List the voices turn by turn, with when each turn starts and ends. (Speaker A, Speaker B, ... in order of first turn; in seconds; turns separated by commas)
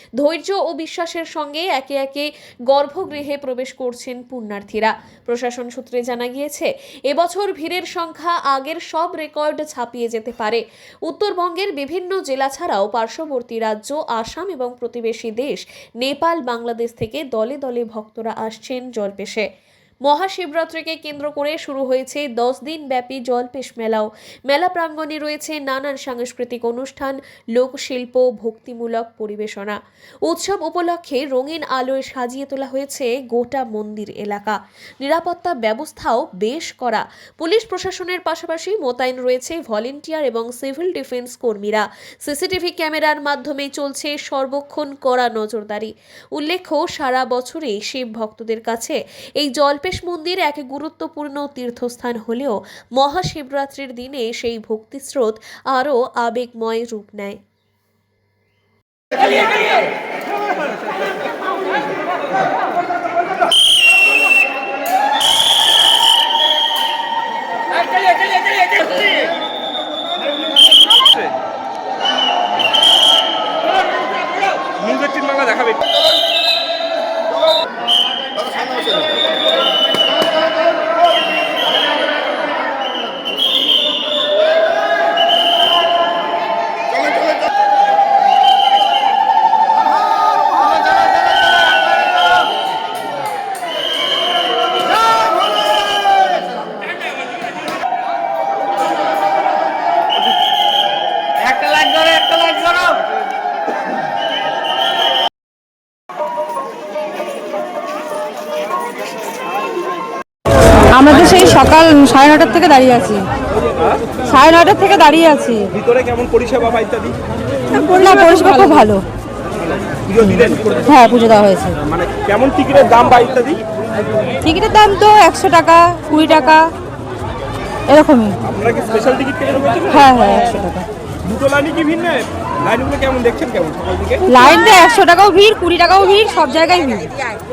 Speaker A: 0.2-19.4, Speaker A: 20.1-57.4, Speaker B: 74.7-75.8, Speaker C: 110.9-113.2, Speaker C: 114.2-115.7, Speaker B: 115.7-117.2, Speaker C: 117.7-119.0, Speaker B: 120.0-120.8, Speaker C: 120.8-121.8, Speaker B: 121.8-123.6, Speaker C: 124.4-126.6, Speaker C: 127.9-128.4, Speaker B: 128.5-130.1, Speaker C: 129.9-130.9, Speaker B: 131.2-134.2, Speaker C: 134.3-137.2